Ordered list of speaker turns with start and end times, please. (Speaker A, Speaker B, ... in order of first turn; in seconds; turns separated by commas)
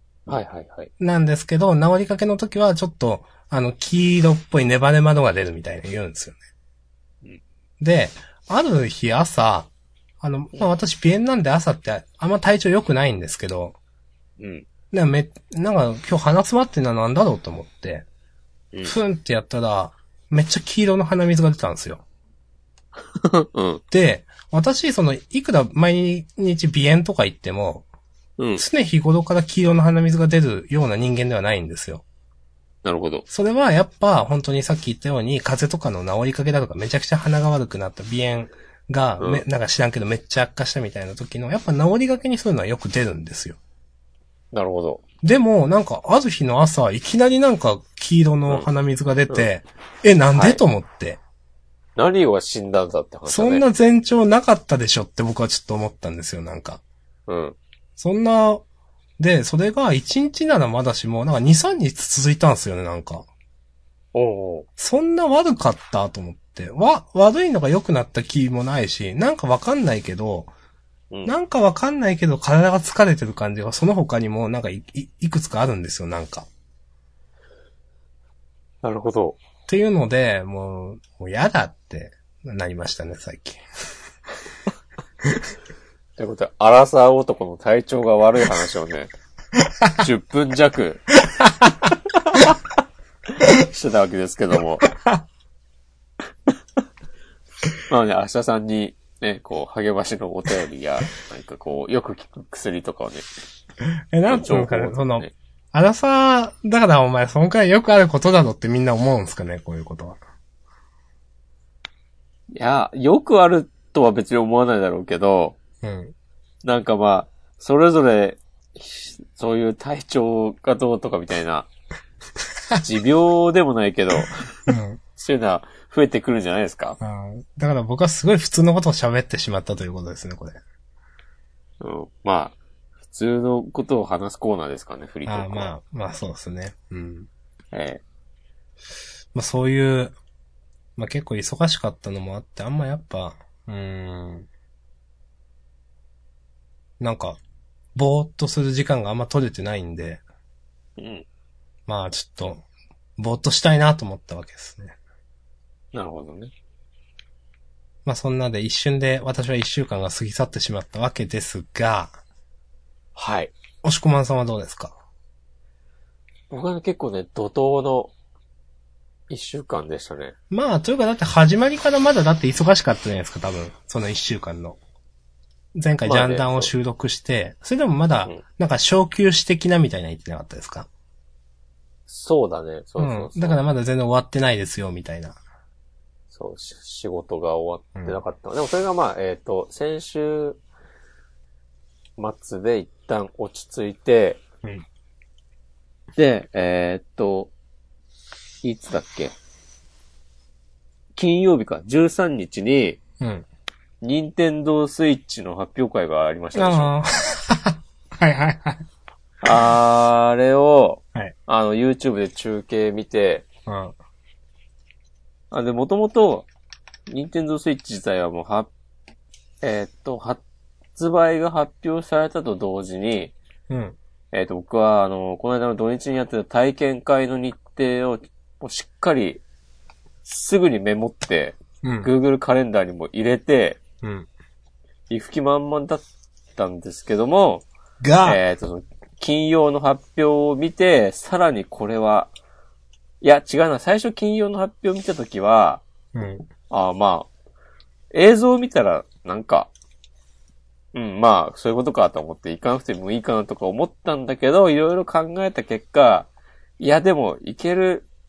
Speaker A: 0.3-0.9, Speaker B: 1.0-6.4, Speaker B: 7.8-9.7, Speaker B: 10.2-13.8, Speaker A: 14.4-14.7, Speaker B: 14.9-18.1, Speaker B: 18.8-22.0, Speaker A: 23.2-23.8, Speaker B: 23.9-27.8, Speaker A: 28.4-28.6, Speaker B: 28.6-32.0, Speaker A: 32.8-33.2, Speaker B: 33.3-43.6, Speaker A: 39.2-39.5, Speaker A: 44.5-45.0, Speaker B: 45.2-51.2, Speaker A: 50.3-50.6, Speaker A: 52.0-53.6, Speaker B: 53.3-56.8, Speaker A: 57.3-57.6, Speaker B: 58.0-58.6, Speaker B: 59.2-63.3, Speaker A: 64.1-64.7, Speaker B: 64.8-70.5, Speaker B: 71.2-76.5, Speaker A: 78.8-79.4, Speaker B: 79.7-83.6, Speaker A: 86.2-89.1, Speaker A: 90.0-91.1, Speaker A: 93.4-94.9, Speaker B: 94.9-95.2, Speaker A: 97.9-103.2, Speaker B: 104.1-110.2, Speaker A: 104.3-105.3, Speaker A: 112.5-115.6, Speaker B: 115.8-116.1, Speaker A: 116.6-121.7, Speaker A: 122.8-124.6, Speaker B: 124.7-125.0, Speaker A: 125.2-127.0, Speaker B: 127.0-130.6, Speaker A: 131.8-132.5, Speaker A: 133.1-135.7, Speaker B: 135.2-137.3, Speaker A: 137.7-138.0, Speaker B: 139.3-140.2, Speaker B: 141.0-144.5, Speaker B: 147.0-147.4, Speaker B: 147.9-150.2, Speaker A: 151.0-151.2, Speaker B: 151.9-152.6, Speaker B: 153.2-155.0, Speaker A: 155.9-156.5, Speaker B: 158.0-162.2, Speaker A: 163.2-163.5, Speaker B: 163.8-164.9, Speaker A: 166.5-168.1, Speaker A: 169.3-170.3, Speaker B: 170.5-174.8, Speaker B: 175.7-180.9, Speaker A: 176.0-176.7, Speaker A: 182.1-183.6, Speaker B: 183.0-185.4, Speaker A: 186.3-190.6, Speaker A: 192.2-194.4, Speaker A: 196.2-197.5, Speaker A: 198.6-199.3, Speaker A: 201.2-203.0, Speaker B: 203.2-203.4, Speaker A: 204.0-206.9, Speaker B: 206.5-208.8, Speaker A: 209.4-213.4, Speaker B: 213.7-213.9, Speaker A: 215.5-216.5, Speaker A: 217.1-218.7, Speaker A: 219.6-220.4, Speaker A: 221.0-223.3, Speaker B: 223.7-224.0, Speaker A: 224.3-229.4, Speaker A: 230.2-233.8, Speaker B: 231.8-232.1, Speaker B: 234.0-234.3, Speaker A: 235.1-236.0, Speaker A: 236.6-237.7, Speaker B: 238.0-238.4, Speaker A: 238.2-242.3, Speaker A: 243.2-245.8, Speaker B: 246.1-246.5, Speaker A: 246.7-247.3, Speaker A: 248.1-249.7, Speaker A: 250.9-256.3, Speaker A: 256.8-258.1